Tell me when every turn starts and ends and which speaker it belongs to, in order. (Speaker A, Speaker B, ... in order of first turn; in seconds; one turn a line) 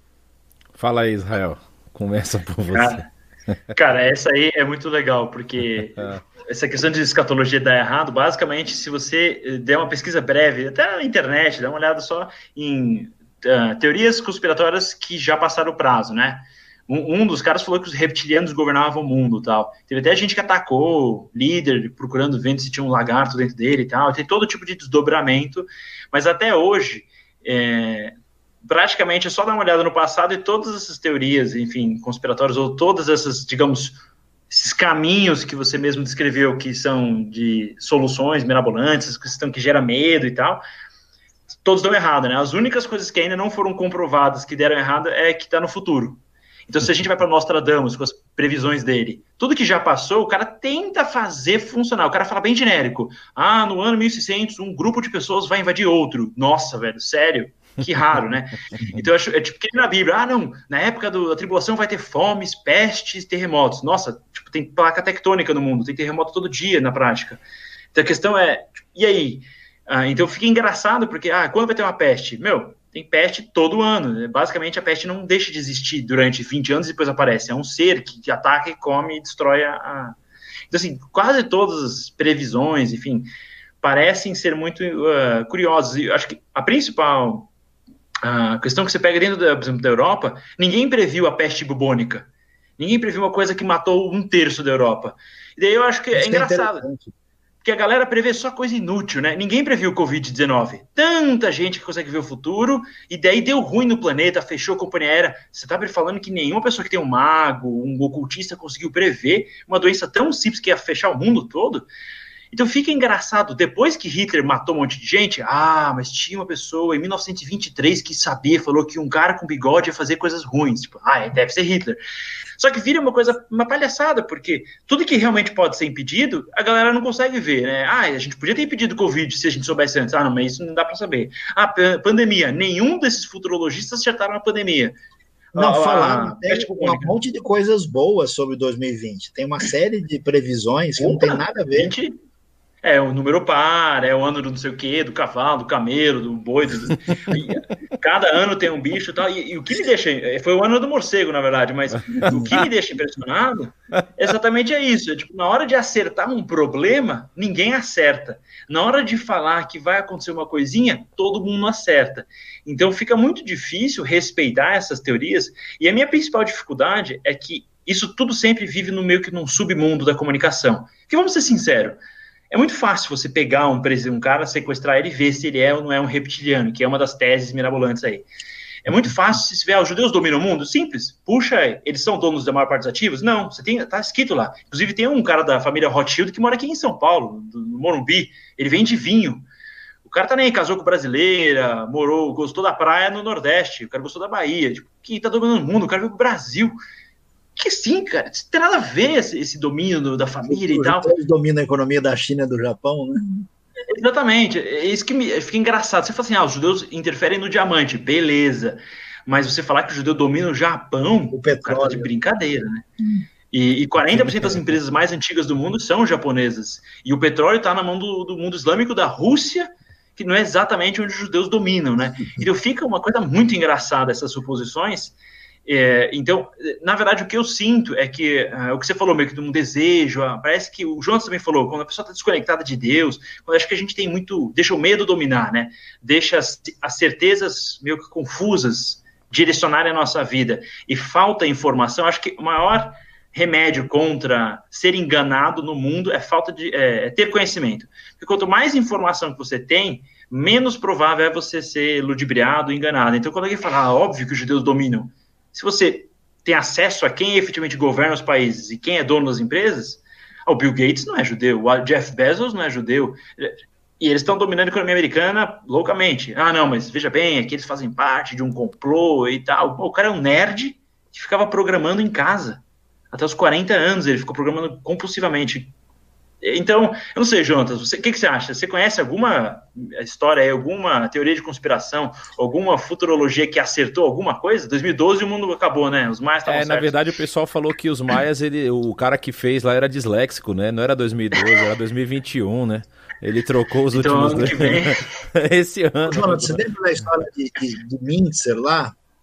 Speaker A: 0.8-3.0
Speaker B: 2.7-3.0
Speaker B: 3.7-34.0
Speaker B: 34.5-40.6
Speaker B: 41.6-67.4
Speaker B: 67.9-80.2
Speaker B: 80.7-83.3
Speaker B: 83.8-87.5
Speaker B: 88.2-92.3
Speaker B: 92.8-96.8
Speaker C: 96.1-97.1
Speaker B: 97.6-111.9
Speaker B: 112.5-122.0
Speaker B: 122.6-134.9
Speaker B: 135.5-137.1
Speaker C: 135.6-141.9
Speaker B: 141.0-142.1
Speaker B: 142.8-172.0
Speaker B: 172.5-178.3
Speaker B: 178.9-189.4
Speaker B: 190.0-196.8
Speaker B: 197.6-201.1
Speaker C: 200.5-203.5
Speaker B: 203.9-212.8
Speaker C: 211.3-212.1
Speaker B: 213.5-275.7
Speaker B: 276.4-286.9
Speaker A: 286.4-296.6
Speaker B: 293.9-295.0
Speaker C: 296.0-298.9